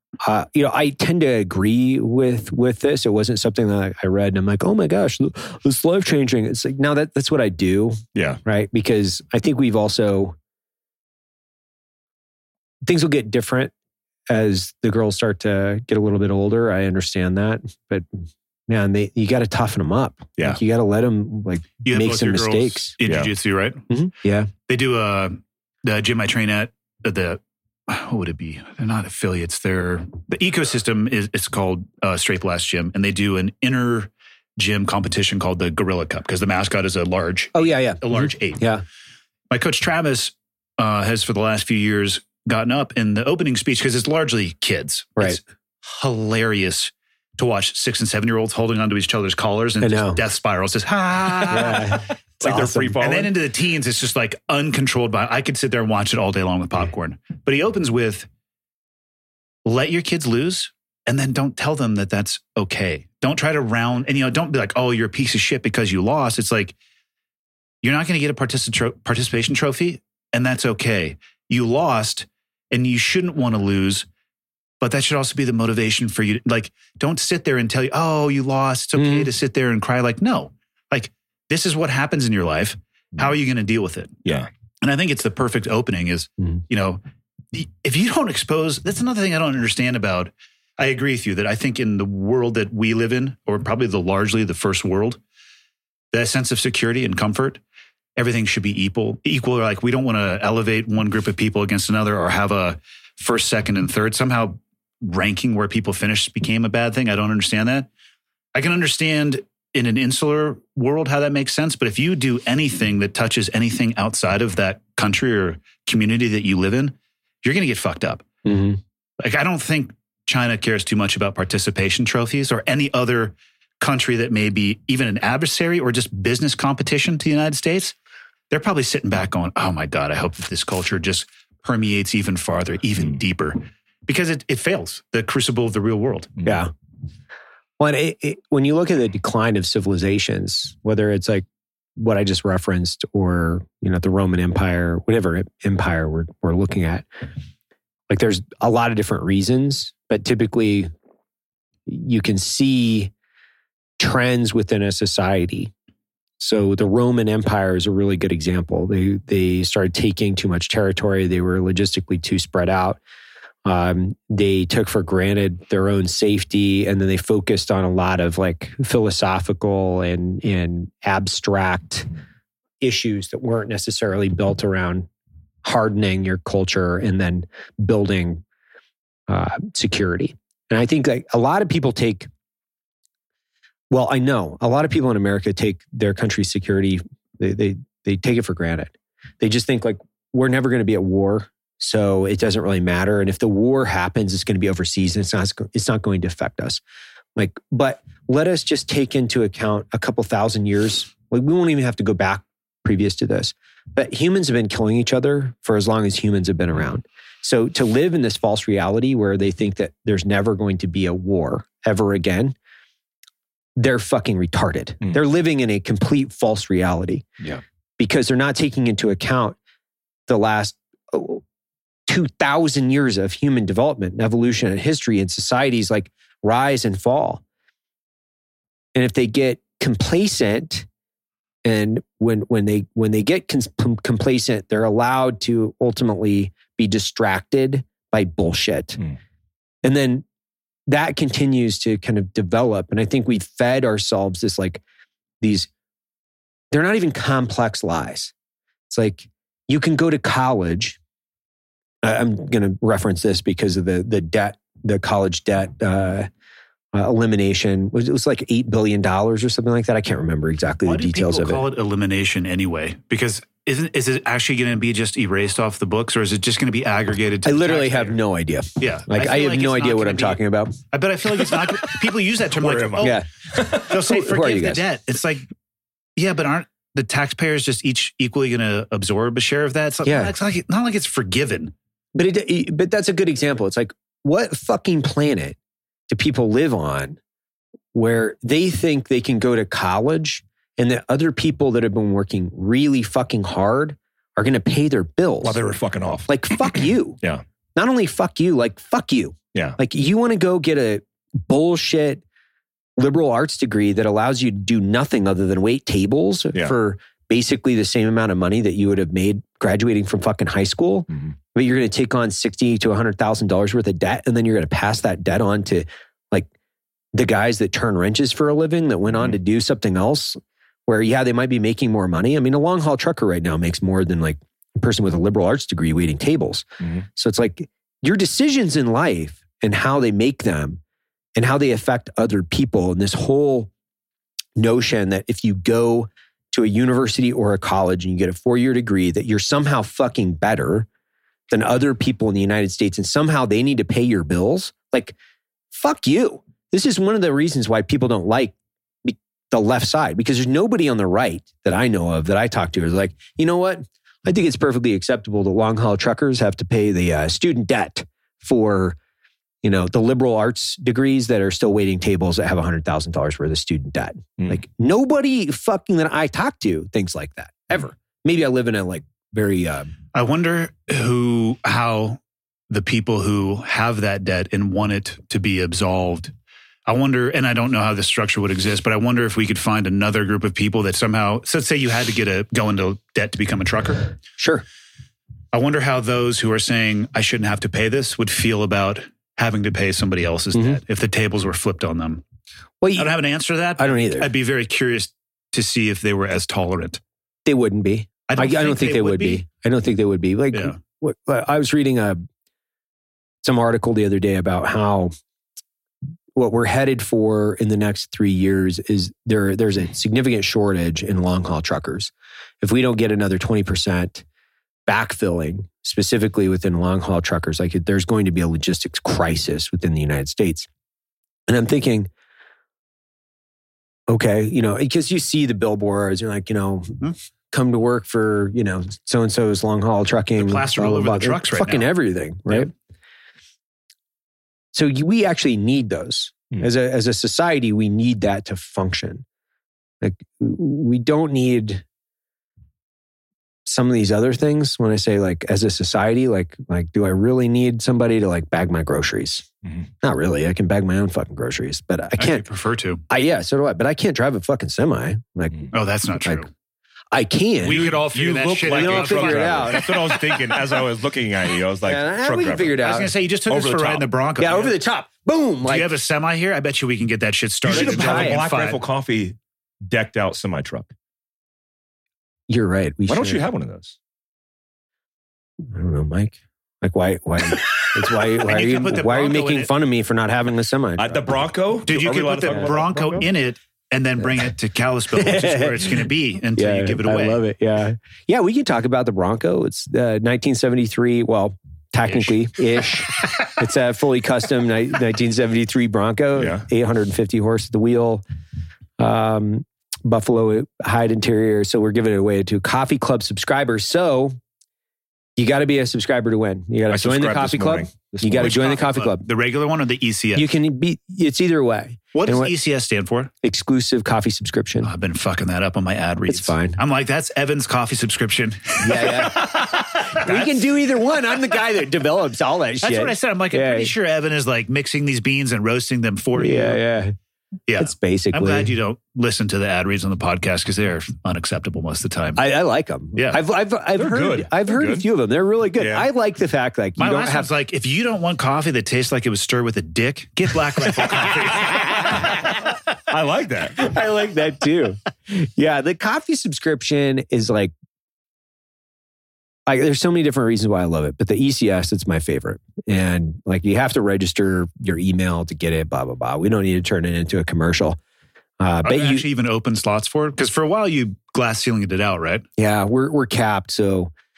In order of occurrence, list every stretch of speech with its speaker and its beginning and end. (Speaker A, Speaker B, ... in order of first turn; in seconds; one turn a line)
Speaker A: 0.2-10.3
Speaker B: 8.1-8.4
Speaker A: 12.8-13.7
Speaker A: 14.3-18.1
Speaker A: 18.7-22.9
Speaker C: 21.8-23.8
Speaker B: 23.0-23.3
Speaker A: 23.9-24.5
Speaker C: 24.7-38.7
Speaker A: 37.5-38.8
Speaker C: 39.5-52.0
Speaker A: 49.8-50.2
Speaker A: 51.5-53.0
Speaker B: 52.4-53.4
Speaker C: 53.0-58.3
Speaker C: 59.6-66.7
Speaker C: 67.8-74.0
Speaker C: 74.8-84.2
Speaker A: 79.0-79.3
Speaker C: 84.8-87.0
Speaker C: 87.5-95.2
Speaker C: 96.1-97.6
Speaker C: 98.2-107.9
Speaker C: 108.5-118.2
Speaker A: 118.4-118.8
Speaker C: 119.2-127.9
Speaker C: 128.5-136.3
Speaker A: 136.4-136.7
Speaker A: 137.8-147.1
Speaker A: 148.1-150.9
Speaker A: 151.9-153.1
Speaker A: 154.0-155.7
Speaker A: 156.4-163.0
Speaker A: 163.6-172.1
Speaker A: 172.8-175.1
Speaker A: 175.6-178.4
Speaker A: 179.3-182.3
Speaker A: 183.9-196.8
Speaker A: 197.3-212.5
Speaker A: 213.8-217.3
Speaker A: 218.0-219.6
Speaker A: 220.3-221.4
Speaker A: 222.1-227.4
Speaker A: 228.9-230.9
Speaker A: 231.6-239.0
Speaker A: 239.8-240.2
Speaker A: 240.9-244.8
Speaker A: 245.4-245.7
Speaker A: 246.7-248.3
Speaker A: 248.9-251.0
Speaker A: 252.0-256.3
Speaker A: 256.9-261.6
Speaker C: 260.8-268.2
Speaker A: 267.4-270.8
Speaker C: 268.8-275.4
Speaker B: 272.6-273.8
Speaker A: 273.0-274.8
Speaker C: 276.2-281.7
Speaker A: 280.0-280.3
Speaker A: 282.1-285.6
Speaker A: 286.1-287.2
Speaker A: 287.9-295.6
Speaker B: 295.4-297.4
Speaker A: 296.3-297.2
Speaker A: 297.8-302.2
Speaker A: 303.0-316.5
Speaker A: 317.1-330.8
Speaker A: 331.4-333.7
Speaker A: 334.6-340.9
Speaker A: 341.5-345.1
Speaker A: 345.7-348.5
Speaker A: 349.0-359.0
Speaker A: 359.6-369.9
Speaker C: 370.1-372.2
Speaker C: 372.7-376.3
Speaker C: 376.9-384.1
Speaker A: 384.4-384.6
Speaker C: 385.5-392.2
Speaker A: 390.5-390.8
Speaker A: 392.8-393.1
Speaker C: 392.9-397.0
Speaker A: 393.8-394.3
Speaker A: 397.4-402.2
Speaker C: 398.3-399.4
Speaker A: 403.4-405.1
Speaker A: 406.3-414.2
Speaker A: 414.9-420.7
Speaker A: 421.5-422.1
Speaker A: 424.1-432.7
Speaker C: 430.4-431.9
Speaker A: 434.7-439.2
Speaker A: 440.0-441.8
Speaker A: 443.6-449.5
Speaker A: 450.0-452.4
Speaker C: 452.2-453.0
Speaker A: 453.1-455.7
Speaker C: 455.7-456.5
Speaker A: 457.1-457.8
Speaker C: 457.6-459.9
Speaker B: 457.6-462.8
Speaker A: 458.7-460.2
Speaker A: 461.8-463.1
Speaker C: 462.8-464.8
Speaker B: 463.5-464.0
Speaker A: 464.4-465.9
Speaker C: 465.6-468.8
Speaker B: 467.6-470.9
Speaker A: 467.7-468.4
Speaker A: 472.5-473.4
Speaker B: 473.1-474.0
Speaker A: 475.7-481.4
Speaker C: 478.1-479.7
Speaker B: 481.0-483.3
Speaker C: 481.9-487.4
Speaker A: 485.1-486.0
Speaker A: 486.6-498.2
Speaker C: 492.1-493.2
Speaker B: 496.4-496.6
Speaker A: 499.0-504.4
Speaker A: 505.4-509.2
Speaker B: 506.9-508.8
Speaker C: 508.4-510.5
Speaker A: 510.3-512.5
Speaker C: 512.1-513.3
Speaker A: 513.4-514.9
Speaker C: 514.8-520.7
Speaker A: 516.3-516.8
Speaker A: 518.8-523.9
Speaker C: 522.8-526.8
Speaker A: 526.4-527.1
Speaker C: 527.7-532.4
Speaker A: 527.8-528.7
Speaker A: 532.4-537.5
Speaker B: 534.0-535.0
Speaker B: 535.8-536.1
Speaker C: 537.0-542.3
Speaker A: 541.2-542.6
Speaker B: 543.1-543.9
Speaker A: 543.8-547.7
Speaker A: 549.7-558.0
Speaker A: 558.6-559.2
Speaker C: 558.8-562.4
Speaker A: 562.6-564.1